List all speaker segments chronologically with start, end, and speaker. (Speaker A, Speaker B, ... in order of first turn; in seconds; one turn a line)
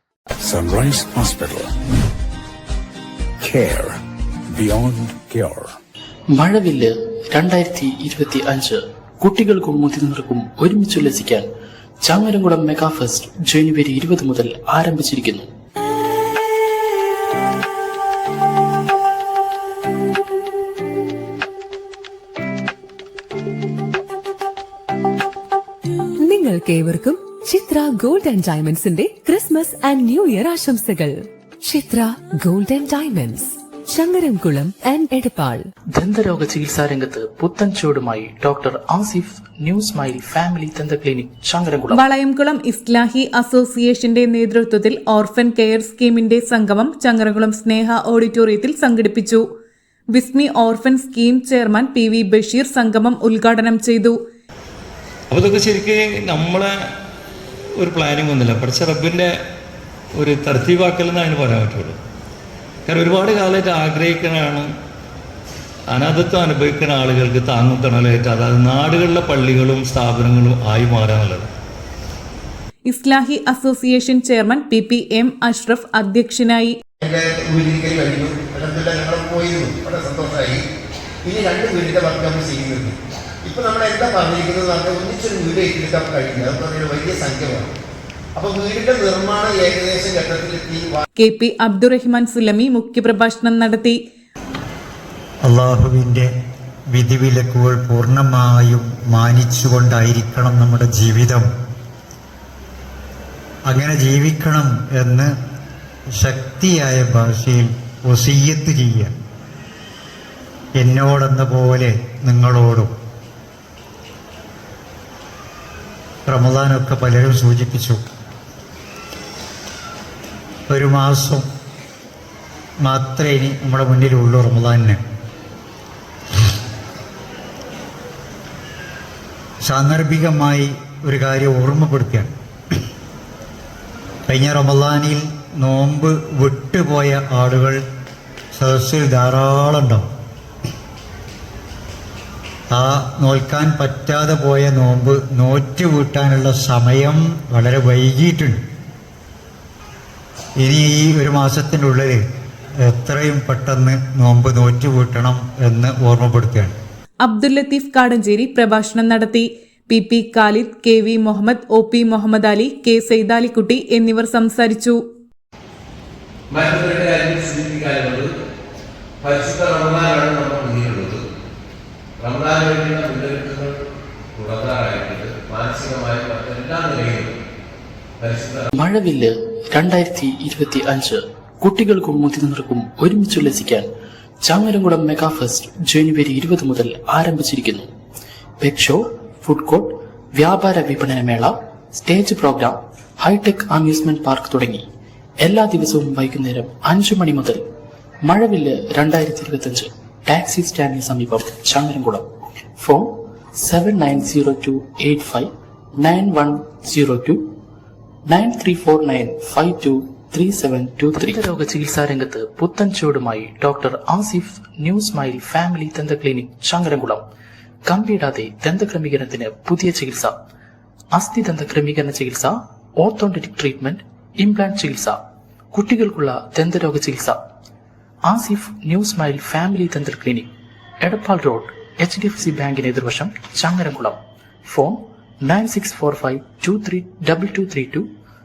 Speaker A: 0.5-1.7
Speaker A: 3.4-4.0
Speaker A: 4.5-5.7
Speaker B: 6.3-11.5
Speaker B: 12.0-15.5
Speaker C: 26.3-35.6
Speaker B: 35.9-42.0
Speaker D: 41.9-49.4
Speaker D: 50.1-54.2
Speaker E: 55.3-56.7
Speaker E: 57.8-59.3
Speaker E: 60.2-62.0
Speaker E: 62.9-64.7
Speaker E: 65.9-71.5
Speaker D: 72.8-76.8
Speaker F: 77.0-80.6
Speaker F: 81.2-87.7
Speaker F: 88.3-91.0
Speaker D: 91.2-94.0
Speaker G: 95.5-96.3
Speaker G: 96.9-101.5
Speaker G: 103.7-105.3
Speaker G: 106.2-109.1
Speaker G: 110.8-112.9
Speaker G: 116.3-118.0
Speaker G: 120.7-121.5
Speaker G: 122.8-125.0
Speaker G: 129.6-132.3
Speaker G: 134.3-137.8
Speaker G: 138.5-140.1
Speaker G: 142.7-148.6
Speaker G: 150.6-152.2
Speaker G: 152.9-156.8
Speaker D: 157.2-165.0
Speaker H: 166.5-168.3
Speaker H: 169.2-171.2
Speaker H: 172.2-173.8
Speaker H: 174.3-177.4
Speaker H: 178.2-178.7
Speaker B: 178.8-183.9
Speaker B: 184.4-187.9
Speaker B: 188.6-194.9
Speaker B: 195.4-197.6
Speaker B: 198.2-202.3
Speaker B: 202.8-207.5
Speaker B: 208.3-217.2
Speaker B: 217.8-220.3
Speaker B: 221.1-225.2
Speaker B: 225.7-227.4
Speaker B: 228.2-230.5
Speaker B: 231.0-238.1